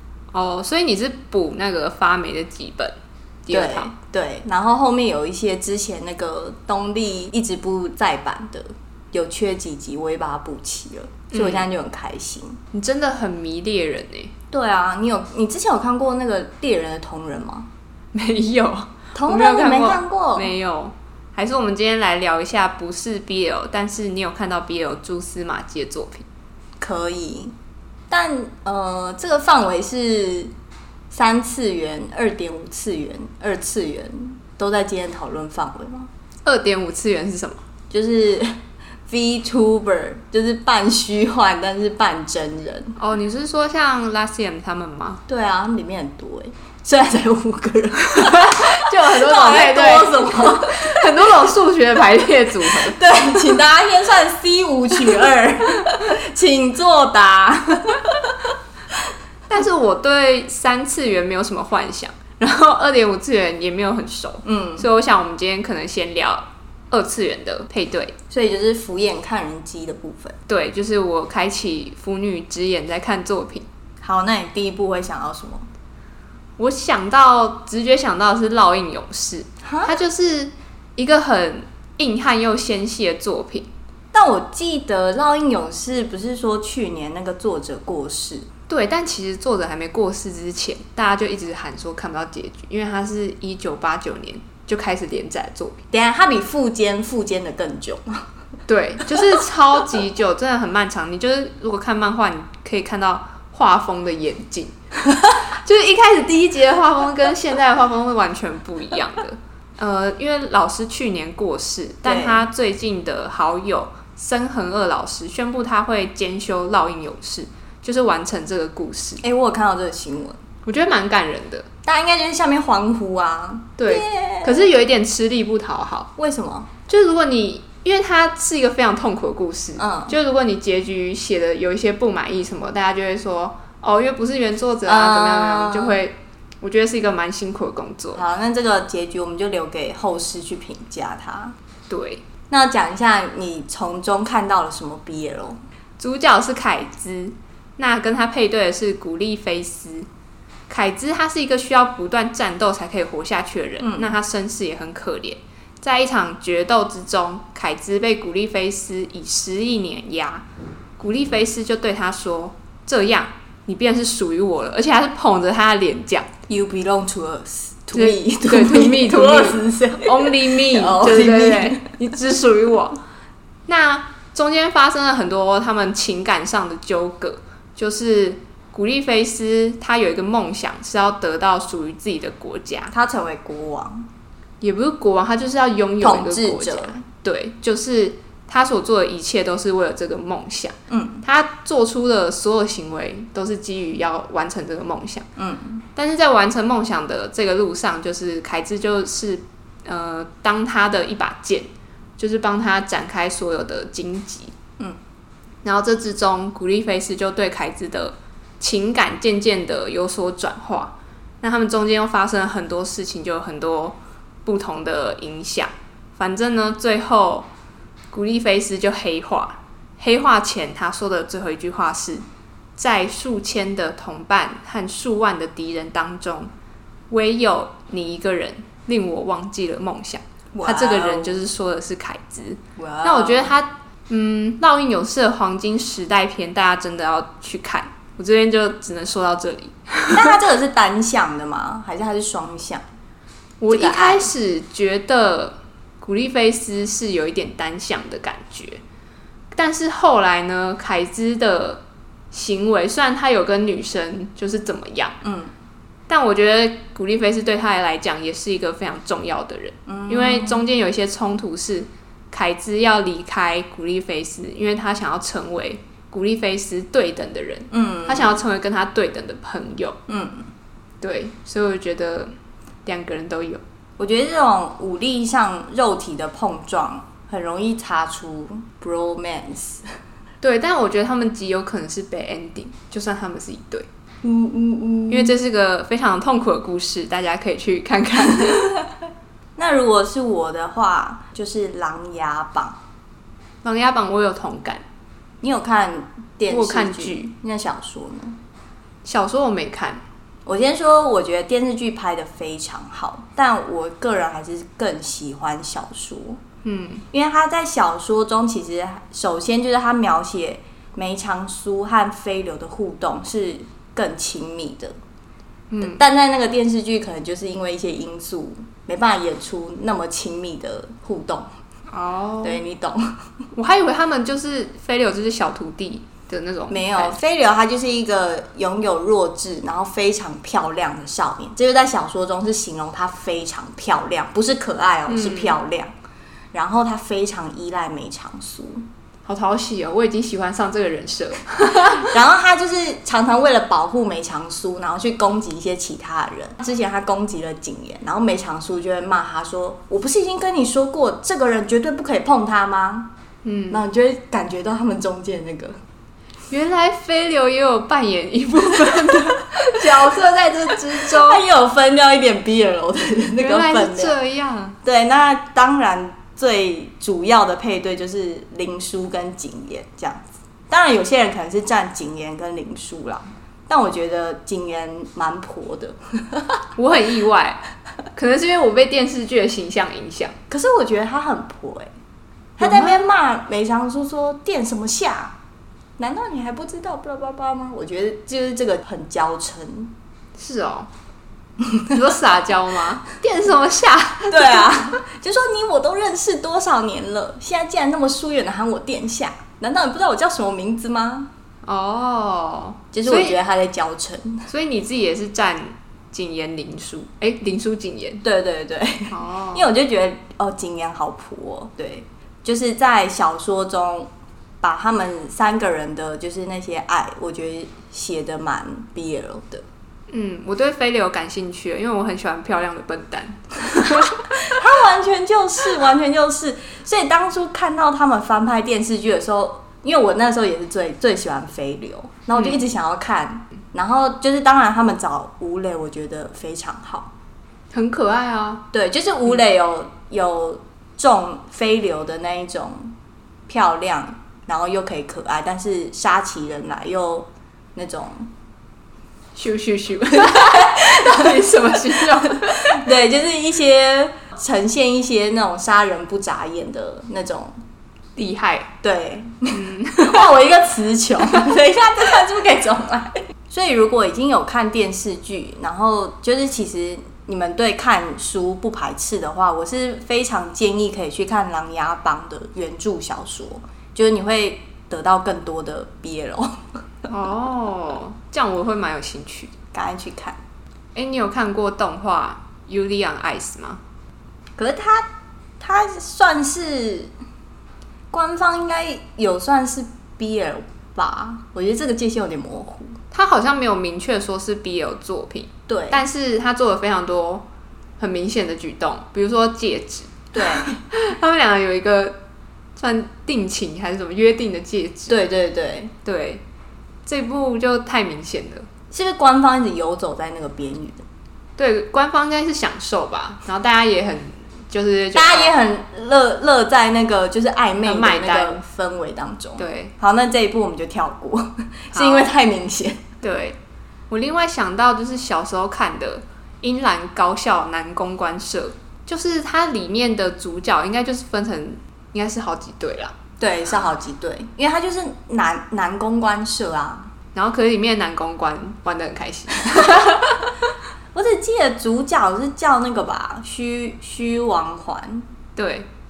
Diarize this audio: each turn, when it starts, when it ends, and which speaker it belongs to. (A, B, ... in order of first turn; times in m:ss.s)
0:00.3-0:03.0 A
0:03.5-0:03.9 A
0:03.5-0:12.6 B
0:11.3-0:11.7 A
0:12.7-0:14.3 A
0:14.5-0:17.7 B
0:18.1-0:26.3 A
0:19.1-0:20.5 B
0:26.8-0:27.5 B
0:28.1-0:30.5 B
0:31.1-0:36.1 B
0:36.4-0:37.6 A
0:37.9-0:42.9 B
0:43.0-0:45.2 A
0:45.3-0:51.0 B
0:48.1-0:53.0 A
0:52.7-0:59.0 B
0:59.5-1:08.2 A
1:04.4-1:04.9 B
1:08.3-1:10.4 B
1:10.5-1:13.7 A
1:14.0-1:15.7 B
1:16.6-1:23.7 A
1:19.6-1:20.0 B
1:24.1-1:28.5 B
1:28.7-1:35.8 A
1:35.9-1:38.3 B
1:38.7-1:44.8 A
1:45.5-1:59.2 A
1:52.0-1:52.5 B
1:59.2-2:00.4 B
2:00.7-2:01.7 A
2:01.8-2:04.7 B
2:03.8-2:06.1 A
2:06.2-2:06.7 B
2:06.9-2:18.2 A
2:09.8-2:10.2 B
2:14.9-2:16.0 B
2:18.2-2:21.6 B
2:21.9-2:22.2 A
2:22.5-2:25.6 B
2:26.0-2:30.1 A
2:30.7-2:40.4 A
2:33.8-2:34.1 B
2:41.0-2:46.3 A
2:46.5-2:51.9 B
2:47.9-2:53.0 A
2:53.7-3:02.9 A
3:02.9-3:04.1 B
3:04.6-3:15.3 A
3:06.0-3:07.0 B
3:10.9-3:11.2 B
3:15.4-3:15.8 B
3:16.0-3:24.5 A
3:25.6-3:37.5 A
3:38.1-3:42.2 A
3:42.8-3:46.5 A
3:47.1-4:00.4 A
3:50.5-3:51.4 B
3:52.8-3:53.6 B
4:00.1-4:02.8 B
4:03.6-4:08.8 A
4:03.7-4:04.3 B
4:09.5-4:15.2 A
4:15.2-4:15.5 B
4:16.1-4:30.0 A
4:19.9-4:20.6 B
4:27.7-4:28.4 B
4:30.1-4:30.5 B
4:31.0-4:32.3 A
4:32.9-4:33.6 A
4:34.0-4:39.9 B
4:40.4-4:43.9 A
4:44.2-4:45.4 B
4:45.1-4:48.8 A
4:49.6-4:52.8 B
4:53.6-4:54.8 A
4:55.4-4:58.4 B
4:56.5-4:57.3 A
4:59.0-5:00.0 A
5:00.5-5:06.4 B
5:06.6-5:07.0 A
5:07.1-5:14.9 B
5:15.7-5:16.0 A
5:15.8-5:21.5 B
5:21.9-5:22.6 A
5:22.4-5:23.2 B
5:23.6-5:27.2 A
5:26.7-5:35.9 B
5:35.1-5:35.6 A
5:36.5-5:38.9 B
5:39.3-5:42.1 A
5:42.0-5:53.1 B
5:53.4-5:53.8 A
5:53.7-5:55.8 B
5:56.5-6:01.4 A
6:00.9-6:04.2 B
6:03.4-6:04.8 A
6:04.8-6:16.6 B
6:16.8-6:17.6 A
6:18.1-6:20.4 A
6:20.5-6:21.9 B
6:22.6-6:25.4 B
6:22.6-6:23.0 A
6:26.0-6:29.9 B
6:30.4-6:30.9 A
6:31.6-6:31.9 B
6:31.9-6:34.8 A
6:34.3-6:41.3 B
6:41.6-6:43.4 A
6:42.9-6:44.5 B
6:44.5-6:48.2 A
6:48.2-6:59.6 B
6:49.1-6:49.7 A
7:00.1-7:04.4 A
7:04.3-7:17.1 B
7:12.4-7:12.6 A
7:17.7-7:18.6 A
7:18.7-7:22.9 B
7:23.5-7:28.3 B
7:29.4-7:32.8 A
7:30.2-7:31.5 B
7:32.6-7:37.5 B
7:38.2-7:38.7 A
7:38.8-7:56.6 B
7:39.5-7:40.3 A
7:57.1-7:59.5 A
7:59.7-8:00.4 B
8:01.0-8:03.8 A
8:04.6-8:07.1 B
8:08.1-8:13.0 B
8:13.1-8:17.5 A
8:15.7-8:16.0 B
8:18.0-8:22.2 A
8:20.3-8:20.8 B
8:22.8-8:25.2 A
8:25.1-8:25.9 B
8:26.0-8:26.4 A
8:27.1-8:28.7 A
8:28.9-8:31.0 B
8:31.6-8:35.6 A
8:35.1-8:43.0 B
8:37.8-8:38.6 A
8:39.6-8:39.9 A
8:41.9-8:42.3 A
8:43.2-8:43.6 A
8:44.1-8:53.2 A
8:53.4-8:57.1 B
8:57.4-9:00.5 A
9:01.1-9:05.3 B
9:05.6-9:05.9 A